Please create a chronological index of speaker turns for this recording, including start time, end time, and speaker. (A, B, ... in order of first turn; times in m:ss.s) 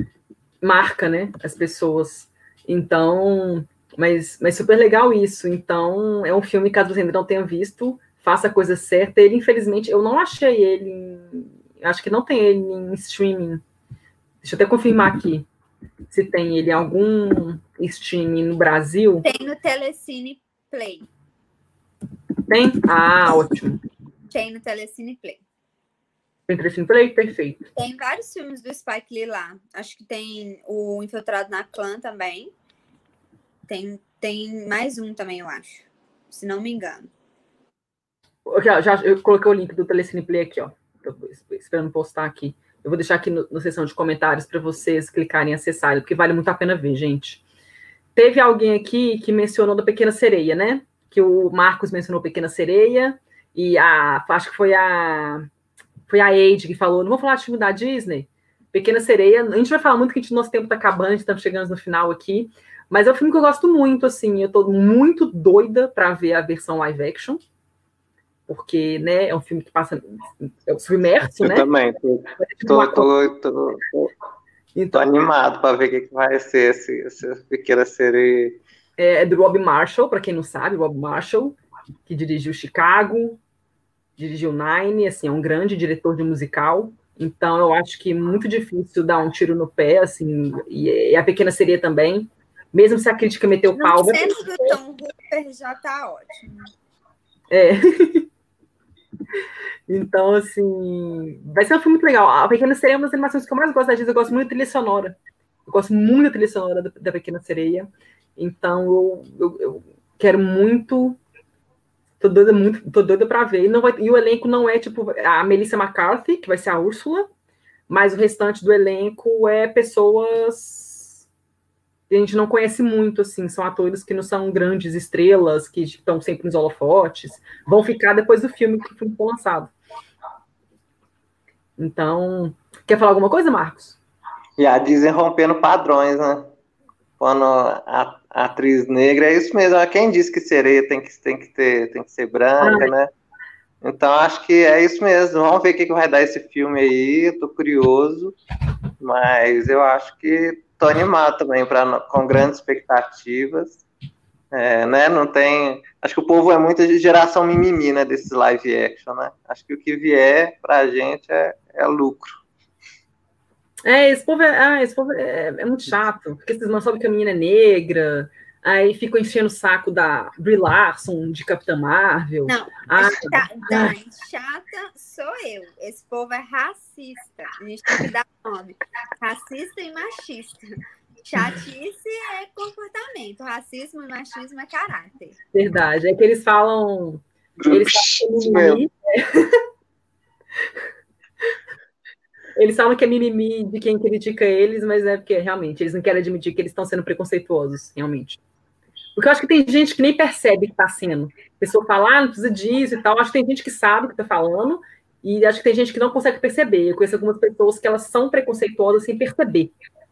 0:00.6-0:13.6 A
0:14.4-0:15.5 A
0:16.1-0:19.2 A
0:19.2-0:21.1 B
0:22.5-0:23.8 A
0:24.3-0:25.4 B
0:26.5-0:27.7 A
0:27.8-0:32.5 B
0:33.7-0:37.1 B
0:38.4-0:47.4 A
0:48.2-0:55.5 A
0:56.1-1:07.4 A
1:08.5-1:11.7 A
1:11.4-1:14.1 C
1:12.4-1:13.1 A
1:14.8-1:15.0 A
1:14.9-1:18.6 C
1:19.0-1:23.4 A
1:24.2-1:34.8 A
1:33.7-1:36.7 B
1:37.5-1:38.3 A
1:39.9-1:51.2 A
1:52.2-1:57.3 A
1:57.9-2:01.2 A
2:02.1-2:09.7 A
2:11.8-2:14.0 A
2:14.6-2:16.5 C
2:17.2-2:23.1 C
2:22.6-2:22.9 A
2:23.8-2:28.4 C
2:29.0-2:33.8 C
2:34.5-2:42.3 C
2:43.8-2:54.0 A
2:52.5-3:05.4 B
3:05.5-3:09.6 A
3:07.6-3:08.8 C
3:12.6-3:18.4 A
3:19.2-3:29.7 A